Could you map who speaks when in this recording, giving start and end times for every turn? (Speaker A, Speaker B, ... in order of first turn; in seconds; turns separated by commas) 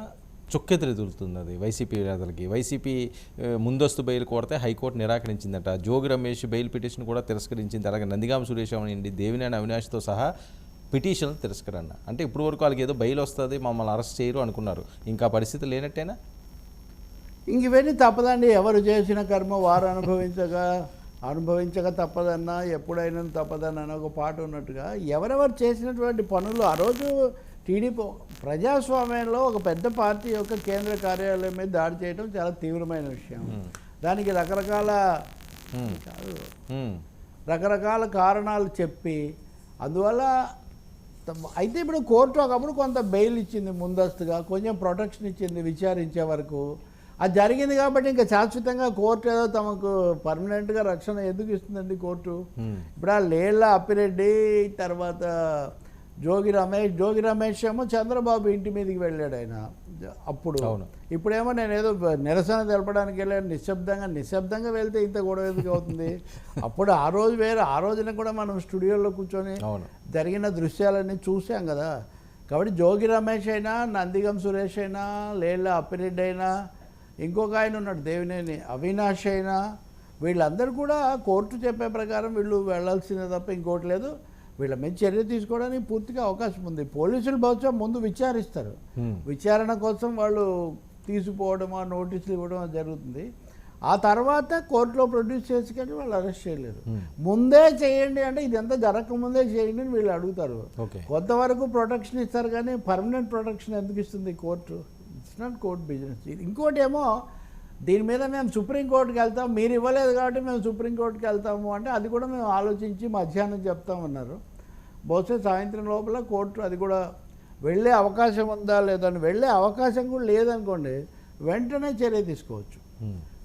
Speaker A: 0.5-10.3, Speaker A: 10.9-16.1, Speaker B: 17.5-20.6, Speaker B: 21.3-27.1, Speaker B: 27.6-35.0, Speaker B: 35.8-36.5, Speaker A: 36.7-37.0, Speaker B: 37.5-39.2, Speaker B: 39.9-40.3, Speaker B: 41.3-46.6, Speaker B: 47.2-52.4, Speaker A: 52.6-52.9, Speaker B: 53.0-55.3, Speaker B: 56.2-59.6, Speaker B: 60.3-69.6, Speaker A: 69.6-69.9, Speaker B: 70.1-71.9, Speaker B: 72.5-76.5, Speaker B: 77.2-79.6, Speaker B: 80.2-90.5, Speaker A: 89.0-89.2, Speaker B: 91.0-93.2, Speaker B: 93.9-107.1, Speaker A: 100.8-101.1, Speaker B: 107.9-114.4, Speaker B: 115.1-117.0, Speaker B: 117.7-121.0, Speaker B: 121.5-122.8